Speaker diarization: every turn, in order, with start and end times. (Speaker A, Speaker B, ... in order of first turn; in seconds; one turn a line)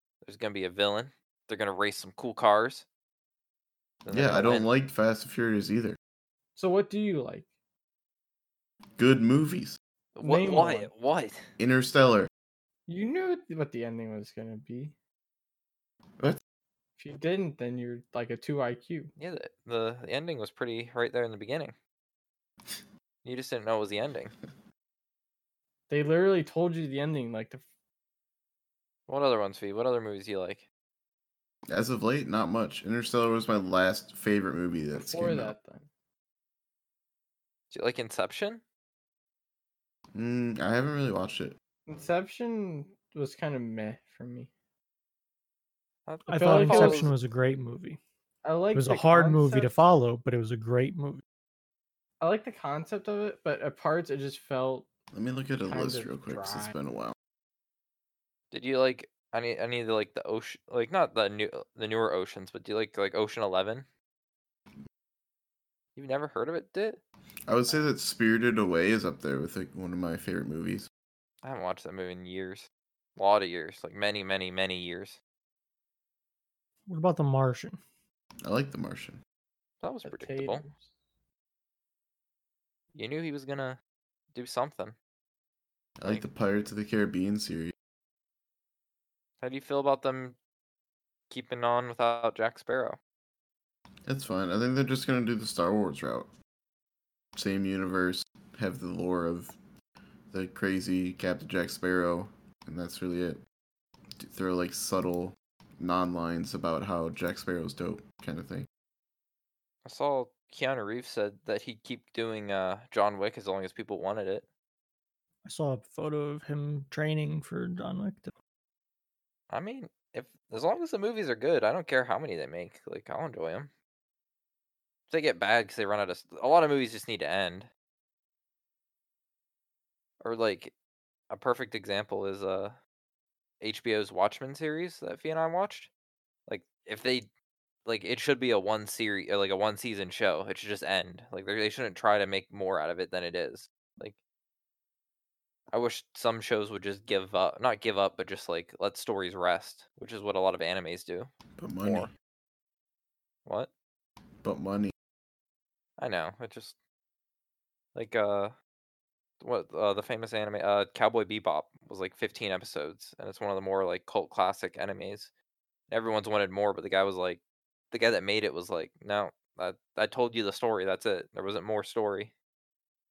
Speaker A: 0.2-2.9
Speaker A: 4.1-4.7
Speaker B: 4.1-6.0
Speaker C: 6.6-7.5
Speaker B: 9.0-9.8
Speaker A: 10.2-11.4
Speaker C: 10.2-10.9
Speaker B: 11.6-12.3
Speaker C: 12.9-14.9
Speaker C: 17.0-19.1
Speaker A: 19.2-21.8
Speaker A: 23.2-24.4
Speaker C: 25.9-27.6
Speaker A: 29.1-30.7
Speaker B: 31.7-35.5
Speaker C: 34.9-35.9
Speaker A: 37.7-38.6
Speaker B: 40.1-41.6
Speaker C: 41.9-44.5
Speaker A: 46.1-47.1
Speaker D: 46.3-48.0
Speaker C: 46.3-47.1
Speaker C: 48.4-49.7
Speaker D: 48.8-51.2
Speaker C: 52.2-54.9
Speaker B: 55.1-57.2
Speaker C: 55.7-56.8
Speaker A: 58.5-63.9
Speaker A: 66.0-67.0
Speaker B: 67.5-70.9
Speaker A: 71.4-75.2
Speaker D: 76.9-77.8
Speaker B: 78.4-79.2
Speaker A: 79.8-80.7
Speaker C: 80.0-80.9
Speaker A: 83.0-83.8
Speaker A: 84.3-85.0
Speaker B: 86.0-87.8
Speaker A: 89.4-90.4
Speaker A: 91.3-93.0
Speaker B: 94.1-96.3
Speaker B: 97.4-99.6
Speaker B: 100.3-103.4
Speaker B: 104.2-108.7
Speaker A: 109.8-114.5
Speaker D: 115.5-118.3
Speaker A: 119.5-123.7
Speaker A: 125.1-127.7
Speaker A: 130.2-130.7
Speaker A: 131.3-132.8
Speaker A: 133.6-135.9
Speaker A: 136.5-137.3
Speaker A: 137.9-144.2
Speaker A: 145.7-151.3
Speaker B: 151.6-152.1
Speaker A: 151.8-152.1
Speaker A: 153.5-153.7
Speaker B: 154.4-154.9
Speaker A: 156.0-156.8
Speaker A: 157.9-158.5
Speaker A: 159.4-165.3
Speaker A: 165.9-172.3